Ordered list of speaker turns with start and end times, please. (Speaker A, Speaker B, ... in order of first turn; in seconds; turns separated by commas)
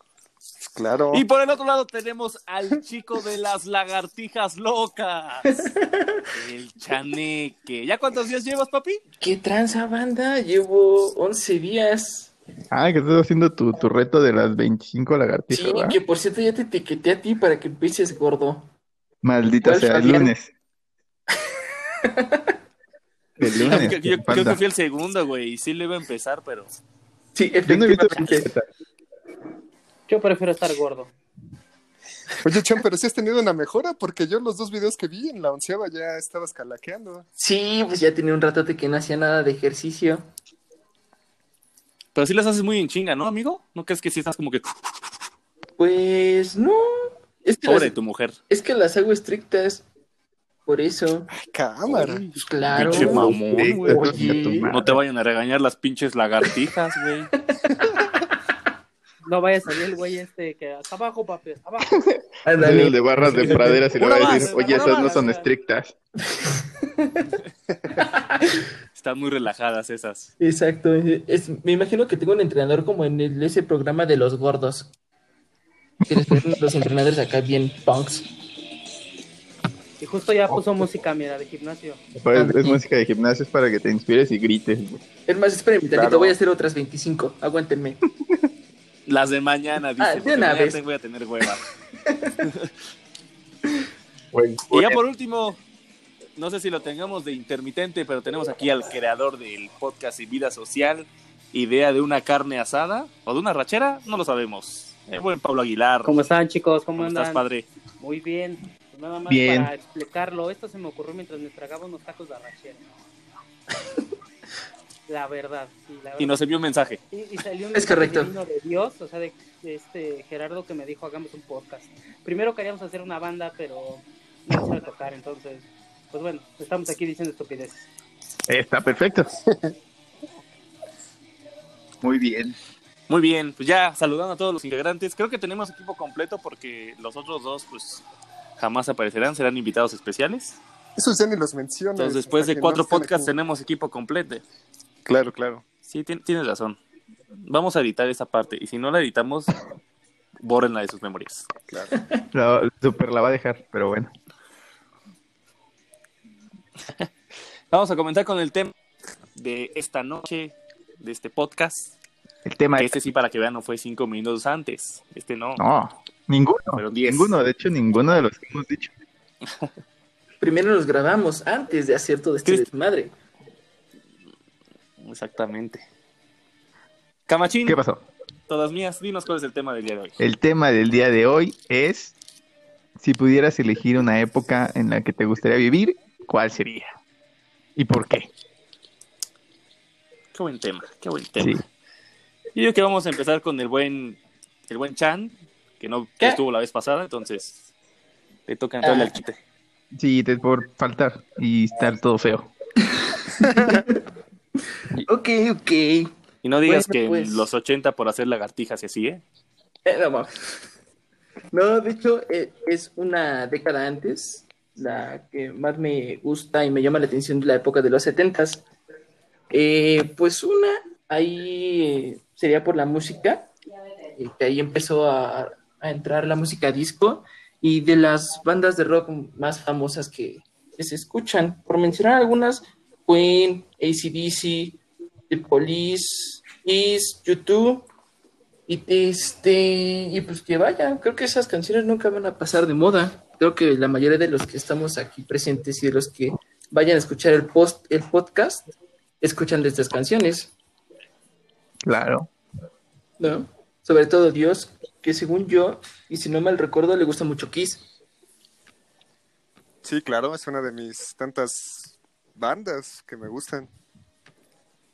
Speaker A: 0.7-1.2, Speaker B: 1.1-5.6, Speaker C: 5.5-6.2, Speaker B: 6.3-9.0, Speaker C: 9.2-12.3, Speaker D: 12.7-16.0, Speaker C: 15.5-18.7, Speaker D: 19.2-20.5, Speaker C: 19.6-20.3, Speaker C: 22.0-22.5, Speaker D: 23.4-24.6, Speaker B: 23.4-26.7, Speaker C: 27.3-28.5, Speaker D: 27.7-28.7, Speaker E: 30.1-31.1, Speaker A: 32.4-37.2, Speaker C: 37.4-40.2, Speaker B: 42.1-44.7, Speaker C: 45.8-47.9, Speaker B: 47.6-48.4, Speaker C: 48.5-49.9, Speaker C: 50.6-51.3, Speaker A: 51.3-52.2, Speaker B: 51.9-57.3, Speaker C: 52.3-54.7, Speaker D: 52.7-55.0, Speaker E: 59.2-62.0, Speaker D: 61.9-65.9, Speaker C: 62.4-63.9, Speaker B: 63.9-65.2, Speaker E: 64.0-65.5, Speaker C: 66.4-67.2, Speaker C: 68.0-68.6, Speaker B: 68.9-70.3, Speaker C: 70.4-74.9, Speaker D: 76.0-76.6, Speaker C: 76.1-78.3, Speaker E: 80.0-82.0, Speaker D: 82.1-85.0, Speaker C: 82.3-82.8, Speaker C: 85.3-88.0, Speaker A: 85.9-86.4, Speaker B: 89.0-91.6, Speaker C: 90.0-90.8, Speaker C: 92.0-92.5, Speaker B: 92.4-92.7, Speaker D: 94.3-95.0, Speaker B: 94.7-95.6, Speaker B: 96.3-106.1, Speaker E: 106.0-107.4, Speaker B: 107.0-107.7, Speaker E: 108.0-112.8, Speaker D: 109.3-109.7, Speaker E: 115.1-116.4, Speaker B: 116.2-117.0, Speaker E: 117.1-127.9, Speaker C: 117.7-118.3, Speaker D: 128.5-129.4, Speaker D: 132.0-132.6, Speaker B: 133.1-138.0, Speaker B: 138.6-140.6, Speaker A: 141.0-143.3, Speaker B: 141.9-144.4, Speaker A: 145.1-145.6, Speaker B: 145.8-146.8, Speaker B: 147.4-149.5, Speaker B: 150.4-151.5, Speaker C: 151.9-152.2, Speaker D: 152.3-154.1, Speaker B: 157.7-158.7, Speaker B: 159.3-161.9, Speaker D: 162.4-162.9, Speaker B: 162.8-165.6, Speaker D: 165.6-168.9, Speaker B: 166.8-167.4, Speaker C: 170.4-173.1, Speaker B: 172.4-172.7, Speaker B: 175.0-175.8, Speaker B: 177.3-177.8, Speaker D: 177.6-178.1, Speaker B: 178.5-180.2, Speaker D: 180.2-182.1, Speaker D: 183.0-186.9, Speaker D: 187.8-188.3, Speaker B: 190.3-191.6, Speaker B: 192.5-197.6, Speaker B: 198.5-199.4, Speaker C: 198.8-199.1, Speaker D: 199.9-202.5, Speaker C: 203.1-204.0, Speaker A: 203.4-203.8, Speaker C: 205.1-206.1, Speaker B: 206.4-209.2, Speaker C: 206.6-207.5, Speaker C: 209.8-210.6, Speaker C: 211.5-218.6, Speaker C: 219.5-223.5, Speaker C: 224.2-237.9, Speaker C: 238.7-250.5, Speaker D: 251.8-252.3, Speaker C: 253.2-257.9, Speaker A: 259.8-263.7